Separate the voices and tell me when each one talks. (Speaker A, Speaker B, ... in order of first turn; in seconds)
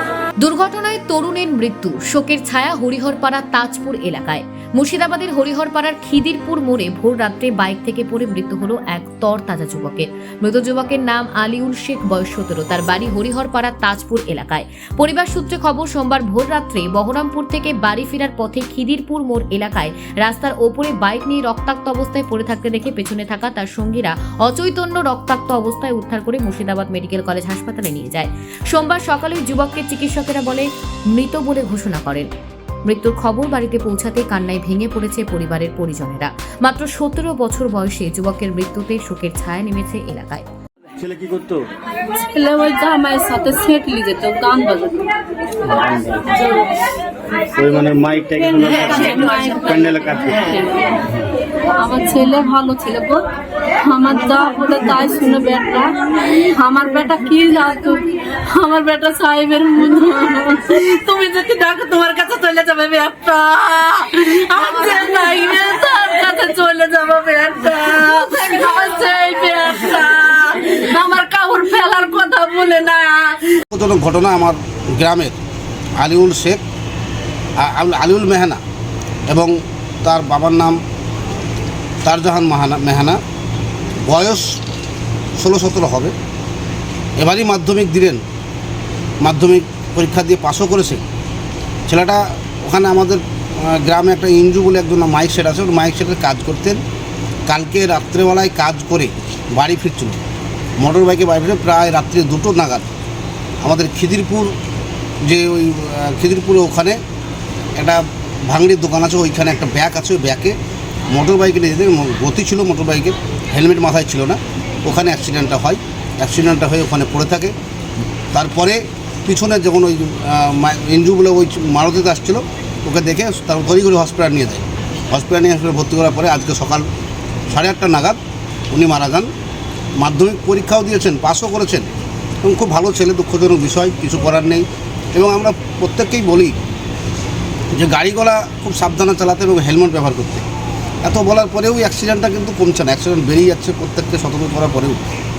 Speaker A: 0.4-32.3, 32.9-40.4
Speaker B: 41.0-41.6, 45.6-46.6, 47.5-50.5
Speaker C: 42.1-45.1, 48.7-51.0, 51.8-53.2, 53.8-73.6
Speaker D: 73.7-75.4, 76.0-76.6, 77.6-78.6, 79.3-80.8, 82.0-83.2, 84.1-84.6, 85.4-86.1, 87.2-88.2, 89.2-91.0, 91.9-96.8, 97.5-100.2, 100.8-102.9, 103.6-104.5, 105.2-107.0, 107.8-110.5, 111.1-117.5, 118.3-126.9, 127.5-128.2, 128.7-129.3, 130.0-131.9, 132.4-136.6, 137.7-140.4, 141.0-145.0